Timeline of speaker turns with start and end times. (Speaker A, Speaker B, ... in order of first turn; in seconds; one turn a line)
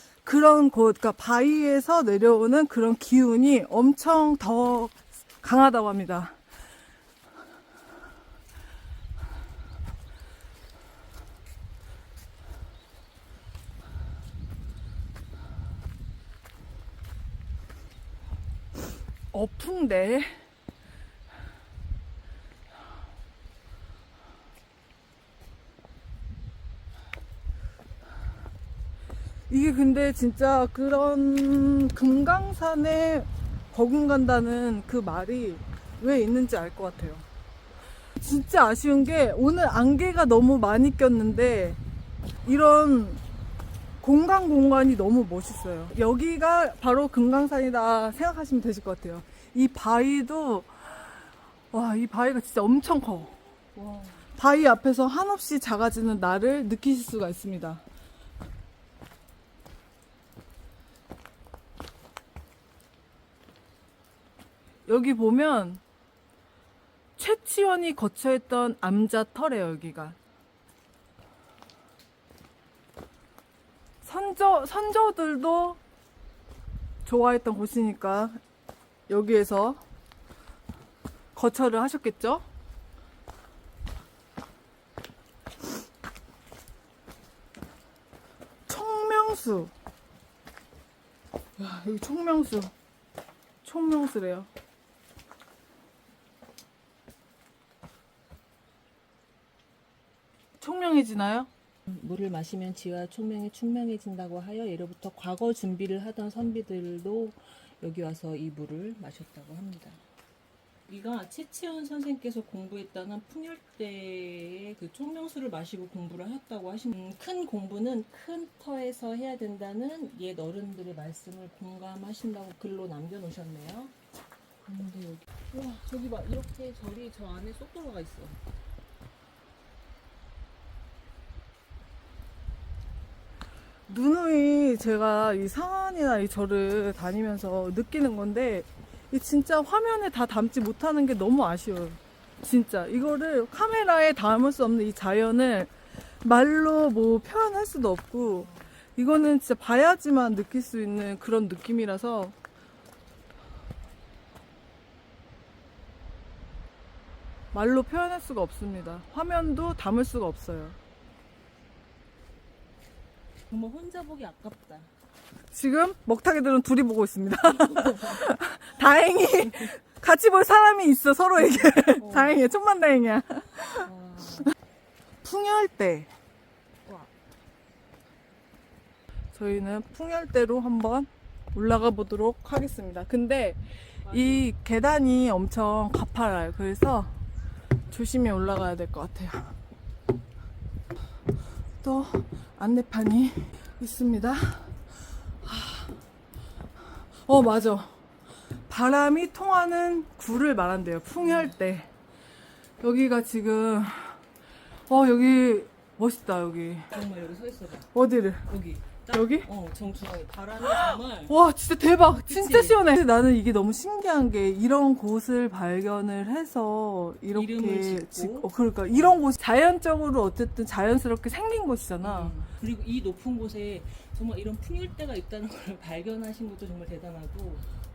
Speaker A: 0.2-6.4
Speaker A: 19.3-20.4
Speaker A: 29.5-37.2
Speaker A: 38.2-41.8
Speaker A: 42.4-43.2
Speaker A: 44.0-53.4
Speaker B: 53.8-54.1
Speaker A: 54.2-57.8
Speaker A: 64.8-65.8
Speaker A: 67.2-70.2
Speaker A: 74.0-75.8
Speaker A: 77.0-78.4
Speaker A: 79.1-79.8
Speaker A: 81.3-82.4
Speaker A: 88.7-89.7
Speaker A: 91.6-92.7
Speaker A: 93.6-94.5
Speaker A: 100.6-101.5
Speaker B: 101.9-110.0
Speaker B: 110.9-123.9
Speaker B: 124.6-128.4
Speaker A: 133.9-152.3
Speaker B: 148.4-148.7
Speaker A: 157.5-160.8
Speaker B: 163.5-164.9
Speaker A: 165.5-173.9
Speaker B: 167.6-168.2
Speaker B: 172.0-172.4
Speaker B: 173.8-174.5
Speaker A: 175.2-176.1
Speaker A: 179.3-187.2
Speaker B: 184.0-184.4
Speaker A: 187.9-189.6
Speaker A: 191.8-194.8
Speaker A: 195.4-196.0
Speaker A: 197.1-198.0
Speaker A: 198.7-201.9
Speaker B: 201.2-201.5
Speaker A: 202.8-204.2
Speaker A: 204.9-206.9
Speaker B: 206.9-207.9
Speaker A: 207.9-208.5
Speaker B: 208.4-211.4
Speaker A: 209.1-209.5
Speaker A: 210.6-222.3
Speaker B: 212.2-212.8
Speaker B: 217.3-219.2
Speaker B: 222.0-227.6